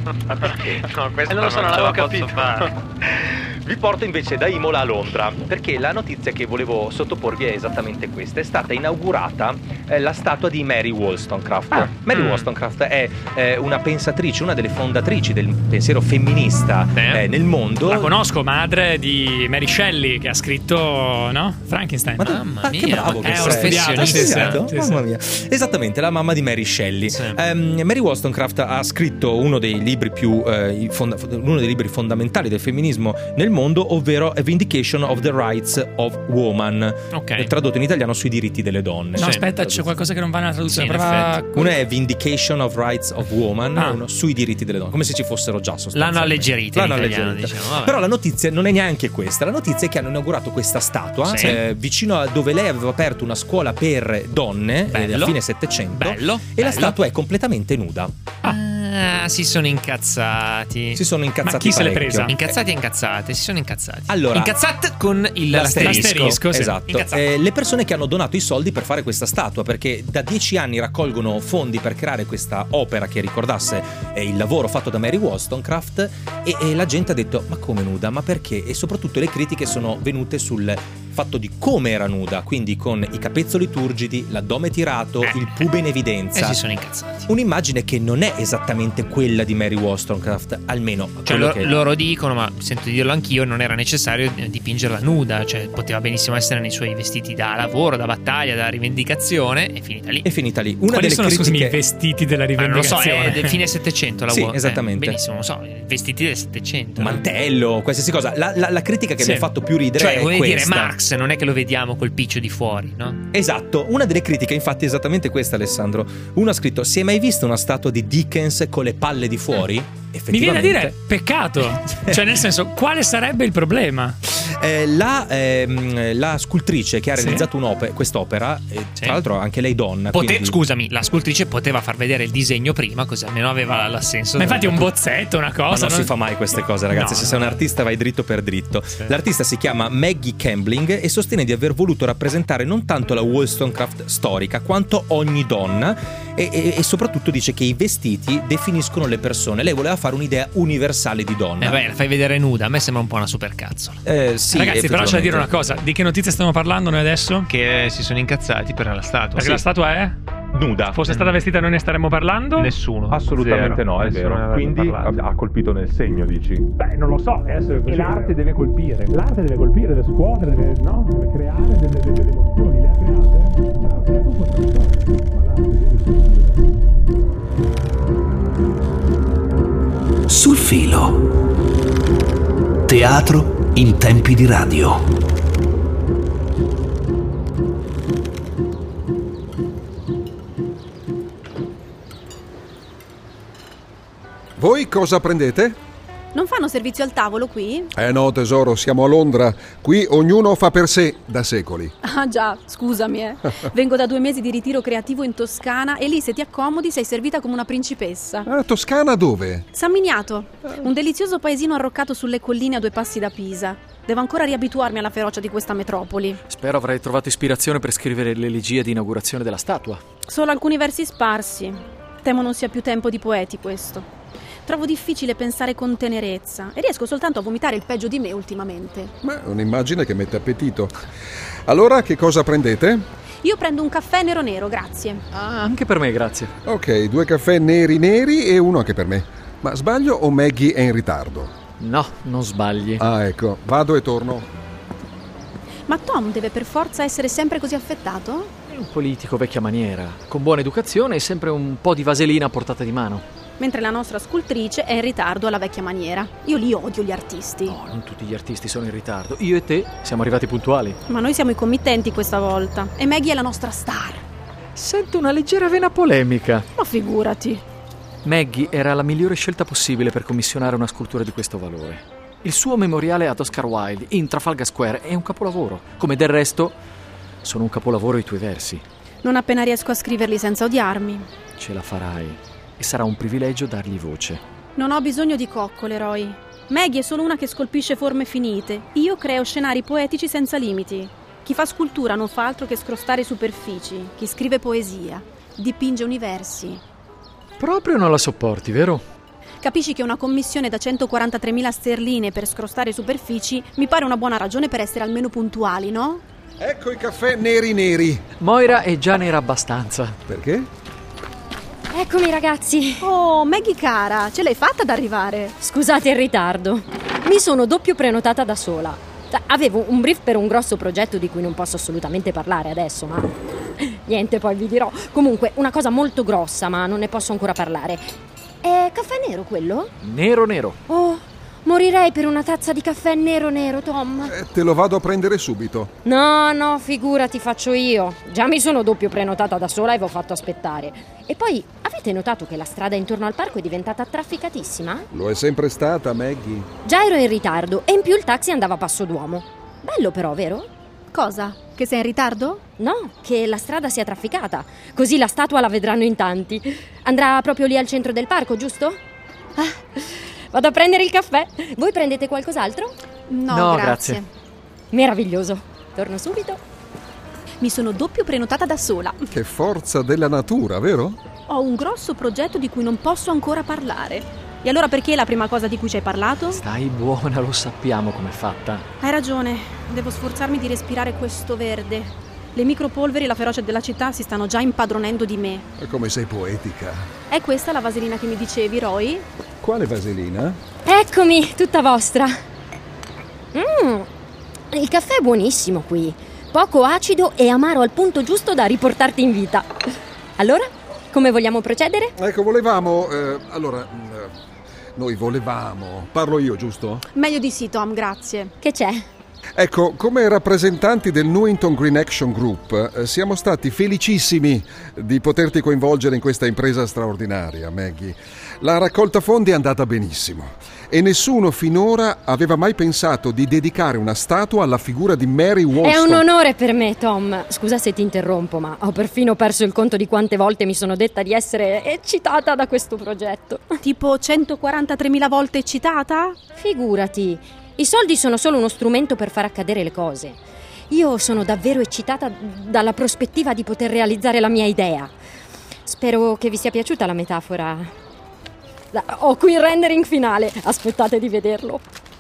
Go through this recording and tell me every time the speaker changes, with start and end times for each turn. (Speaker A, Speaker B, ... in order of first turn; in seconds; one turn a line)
Speaker A: 0.3-2.7
Speaker B: 0.4-2.4
Speaker B: 3.0-18.2
Speaker A: 12.1-12.5
Speaker A: 16.9-17.2
Speaker C: 17.9-18.1
Speaker D: 17.9-22.2
Speaker B: 22.2-40.0
Speaker A: 22.2-24.7
Speaker C: 23.0-24.9
Speaker D: 23.3-25.0
Speaker A: 27.1-27.4
Speaker A: 37.1-37.5
Speaker D: 39.2-41.7
Speaker A: 39.2-39.5
Speaker C: 40.2-41.4
Speaker A: 40.7-41.4
Speaker B: 41.5-58.1
Speaker A: 45.9-48.0
Speaker A: 51.2-51.6
Speaker A: 54.9-57.0
Speaker A: 58.4-61.0
Speaker B: 61.0-62.5
Speaker D: 61.5-62.2
Speaker A: 62.2-67.3
Speaker B: 64.1-64.6
Speaker B: 65.5-86.6
Speaker C: 65.8-66.7
Speaker D: 65.8-66.7
Speaker A: 85.2-85.7
Speaker A: 86.3-87.3
Speaker B: 87.3-91.8
Speaker A: 91.2-100.3
Speaker B: 100.2-101.8
Speaker D: 100.9-103.5
Speaker A: 102.6-107.2
Speaker C: 102.7-103.6
Speaker B: 104.3-105.2
Speaker B: 107.0-111.0
Speaker A: 109.2-113.2
Speaker B: 113.3-121.0
Speaker D: 120.3-124.2
Speaker B: 121.6-122.3
Speaker B: 124.3-130.6
Speaker D: 127.2-127.5
Speaker A: 130.1-134.9
Speaker C: 134.4-134.9
Speaker D: 134.4-136.1
Speaker B: 135.7-151.8
Speaker D: 136.9-137.2
Speaker A: 151.6-154.0
Speaker B: 154.1-155.5
Speaker D: 154.6-157.5
Speaker C: 155.2-155.8
Speaker A: 157.5-159.7
Speaker C: 159.4-160.1
Speaker D: 159.4-160.1
Speaker B: 160.5-161.0
Speaker D: 161.0-162.6
Speaker C: 161.0-162.7
Speaker A: 161.1-161.4
Speaker A: 162.6-165.1
Speaker B: 163.1-166.7
Speaker C: 166.8-168.4
Speaker D: 166.9-171.6
Speaker B: 167.9-168.3
Speaker C: 169.2-176.1
Speaker D: 172.6-172.9
Speaker E: 180.3-181.2
Speaker E: 182.9-185.1
Speaker F: 194.6-195.8
Speaker G: 196.3-197.9
Speaker F: 198.0-201.9
Speaker G: 202.0-208.5
Speaker F: 208.5-209.7
Speaker G: 209.8-216.4
Speaker H: 216.5-220.0
Speaker G: 220.3-224.1
Speaker G: 224.7-229.1
Speaker F: 229.2-231.0
Speaker F: 231.7-233.1
Speaker G: 233.4-235.2
Speaker H: 235.3-236.5
Speaker F: 236.7-241.6
Speaker H: 241.8-243.0
Speaker F: 243.0-244.5
Speaker G: 245.9-248.5
Speaker H: 248.7-253.2
Speaker G: 253.6-257.8
Speaker H: 257.6-261.0
Speaker G: 261.1-264.2
Speaker H: 264.8-266.7
Speaker G: 266.8-267.6
Speaker H: 268.2-276.8
Speaker H: 277.4-278.8
Speaker G: 279.2-281.3
Speaker H: 281.6-284.4
Speaker G: 284.8-296.8
Speaker H: 297.6-299.0
Speaker G: 299.6-306.2
Speaker F: 306.6-308.2
Speaker H: 308.4-310.2
Speaker F: 310.3-310.7
Speaker I: 311.9-313.1
Speaker G: 313.0-315.5
Speaker I: 315.6-328.1
Speaker I: 328.6-329.9
Speaker H: 330.0-330.8
Speaker I: 330.9-334.3
Speaker F: 334.2-335.9
Speaker I: 336.1-345.1
Speaker F: 345.1-346.7
Speaker I: 346.9-350.7
Speaker G: 351.1-352.6
Speaker I: 352.8-359.0
Speaker I: 359.6-362.9
Speaker G: 363.3-364.2
Speaker H: 363.5-364.2
Speaker I: 364.9-366.6
Speaker G: 367.6-369.2
Speaker F: 369.3-371.2
Speaker G: 371.5-376.6
Speaker H: 376.5-378.9
Speaker G: 379.0-385.6
Speaker F: 385.8-387.1
Speaker G: 387.3-389.2
Speaker F: 389.6-390.6
Speaker I: 390.9-392.3
Speaker I: 393.5-394.1
Speaker I: 394.7-399.7
Speaker I: 400.4-402.1
Speaker F: 402.2-404.3
Speaker F: 405.0-407.1
Speaker G: 407.1-408.5
Speaker I: 408.6-409.1
Speaker F: 409.6-426.2
Speaker I: 425.8-433.8
Speaker G: 433.8-436.4
Speaker I: 436.6-440.4
Speaker I: 440.9-445.1
Speaker I: 445.9-447.9
Speaker I: 448.9-451.8